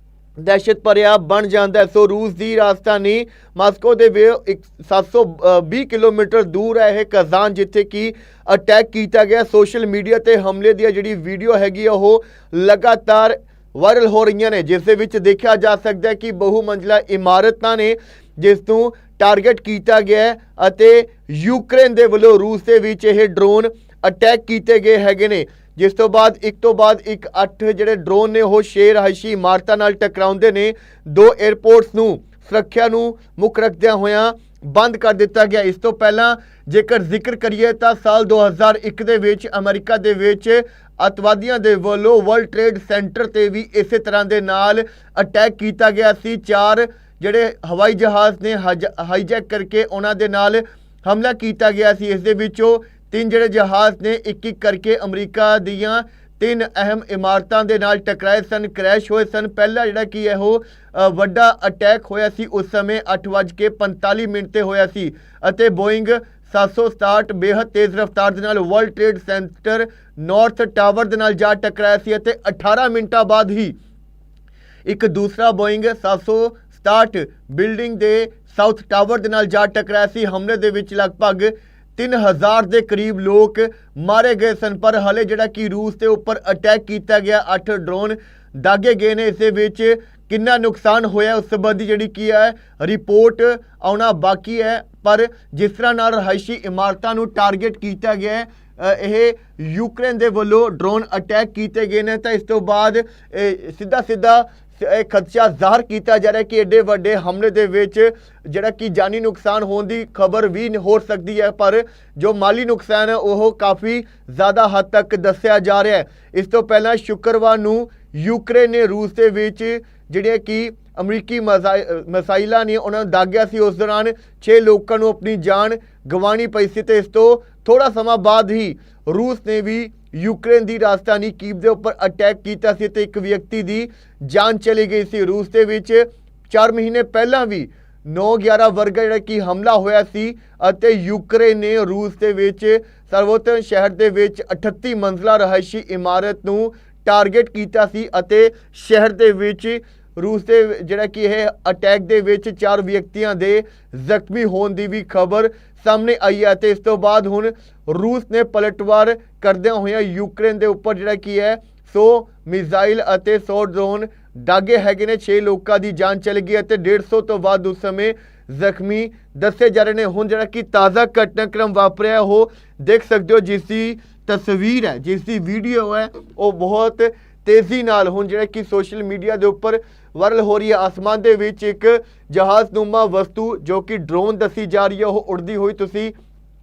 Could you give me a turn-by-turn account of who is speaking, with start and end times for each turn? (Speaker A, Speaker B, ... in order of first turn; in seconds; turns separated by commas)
Speaker A: 0.4-73.7, Speaker A: 74.8-186.1